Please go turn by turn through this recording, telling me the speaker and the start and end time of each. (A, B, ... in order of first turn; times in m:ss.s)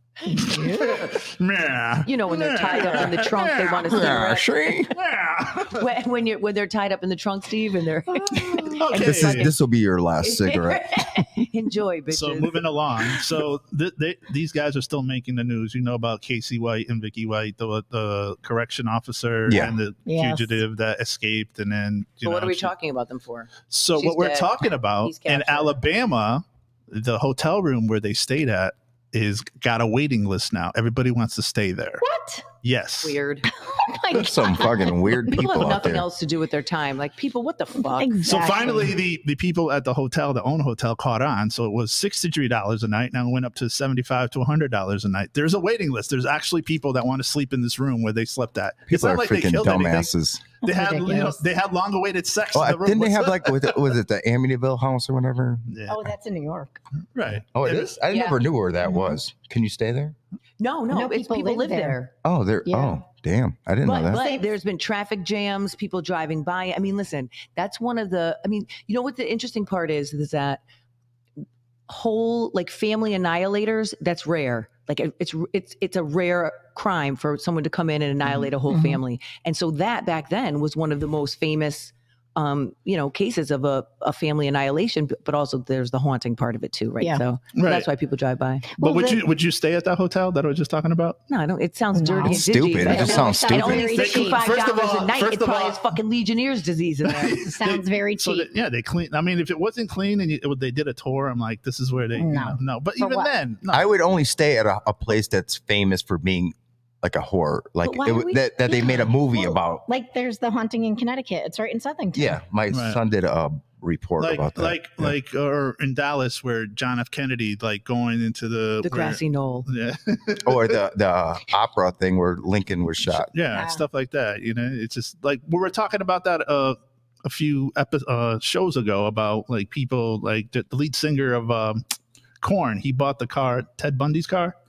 0:00.2-0:01.2 A
0:00.3-0:04.0 B
0:02.0-0:04.8 C
0:03.9-0:04.9 D
0:04.9-0:05.8 B
0:05.6-0:09.5 C
0:08.3-0:08.7 A
0:08.6-0:09.5 B
0:09.0-0:11.1 D
0:10.2-0:12.6 C
0:12.1-0:22.7 B
0:19.5-0:19.8 D
0:19.5-0:20.6 A
0:22.2-0:25.8 C
0:23.7-0:32.0 B
0:32.0-0:32.4 A
0:32.6-0:33.2 B
0:33.0-0:33.5 C
0:33.5-0:35.3 A
0:34.1-0:36.0 D
0:35.3-0:38.2 C
0:37.9-0:38.9 A
0:38.2-0:53.8 B
0:48.9-0:50.4 D
0:50.6-0:51.4 A
0:52.5-0:55.7 D
0:55.7-0:56.1 B
0:55.9-0:56.8 A
0:57.1-0:57.9 B
0:57.5-1:00.2 D
0:58.1-0:58.4 C
0:58.8-0:59.2 A
1:00.6-1:02.1 C
1:00.9-1:02.0 A
1:02.2-1:04.3 D
1:02.6-1:03.0 A
1:03.8-1:10.6 C
1:04.1-1:04.5 A
1:11.9-1:28.7 C
1:18.7-1:19.0 A
1:27.5-1:27.9 B
1:28.8-1:29.2 A
1:28.8-1:31.2 B
1:31.3-1:37.4 C
1:31.9-1:34.6 A
1:32.2-1:34.0 D
1:33.7-1:35.8 B
1:37.0-1:43.9 B
1:37.4-1:38.5 A
1:42.2-1:43.3 A
1:43.7-1:49.8 D
1:47.8-1:49.6 C
1:49.9-1:52.4 A
1:52.1-1:55.1 D
1:52.7-1:53.0 B
1:54.2-2:00.7 B
1:58.8-1:59.7 C
2:00.4-2:03.3 D
2:03.1-2:11.8 B
2:03.5-2:03.8 A
2:12.4-2:14.6 B